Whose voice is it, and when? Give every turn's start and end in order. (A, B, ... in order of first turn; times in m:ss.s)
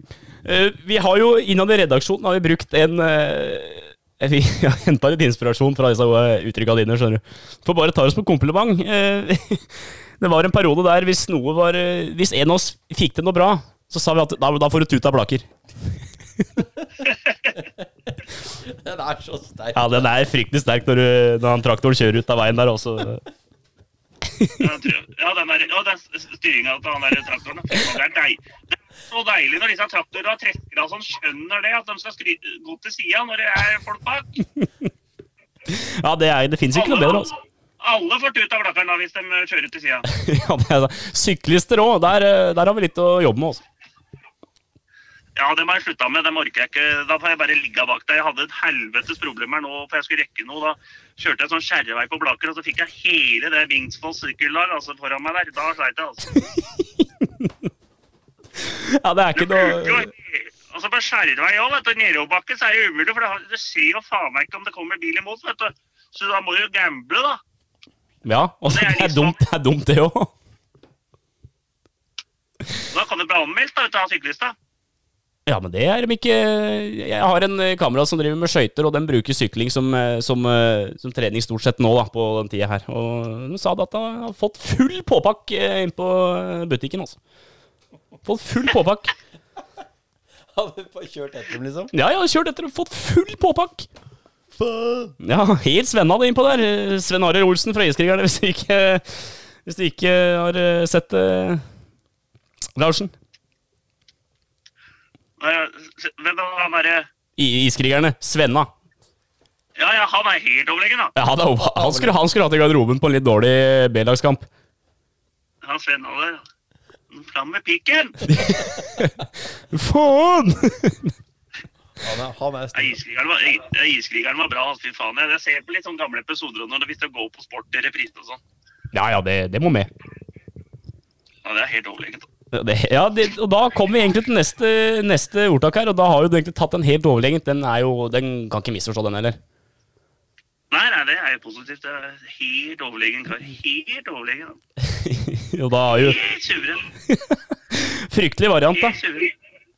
0:00.4-0:15.4 A
0:17.0-0:17.6 B
0:18.5-0:20.2 C
0:19.7-0:23.2 A
0:24.6-0:34.3 B
0:35.6-0:37.3 A
0:36.7-0:40.0 B
0:40.1-0:43.6 A
0:45.4-0:56.3 B
0:56.4-0:57.5 A
0:58.6-1:00.1 A
0:59.4-1:07.4 B
1:08.2-1:10.3 A
1:08.7-1:09.4 B
1:12.9-1:14.5 B
1:15.5-1:27.2 A
1:28.2-1:29.1 A
1:30.5-1:31.9 C
1:31.9-1:33.9 A
1:34.6-1:35.2 C
1:35.2-1:41.6 A
1:42.7-1:43.1 A
1:45.4-1:47.1 B
1:47.4-1:48.7 A
1:49.8-1:51.1 B
1:51.2-1:54.4 A
1:51.6-1:52.2 C
1:55.6-1:56.4 B
1:57.1-1:58.2 B
1:58.3-2:01.1 A
2:02.0-2:03.0 C
2:02.7-2:08.4 B
2:08.9-2:09.9 A
2:11.4-2:12.3 B
2:12.5-2:19.4 A
2:20.7-2:24.6 B
2:24.9-2:26.2 A
2:26.0-2:26.8 B
2:27.1-2:29.0 A
2:28.7-2:29.3 B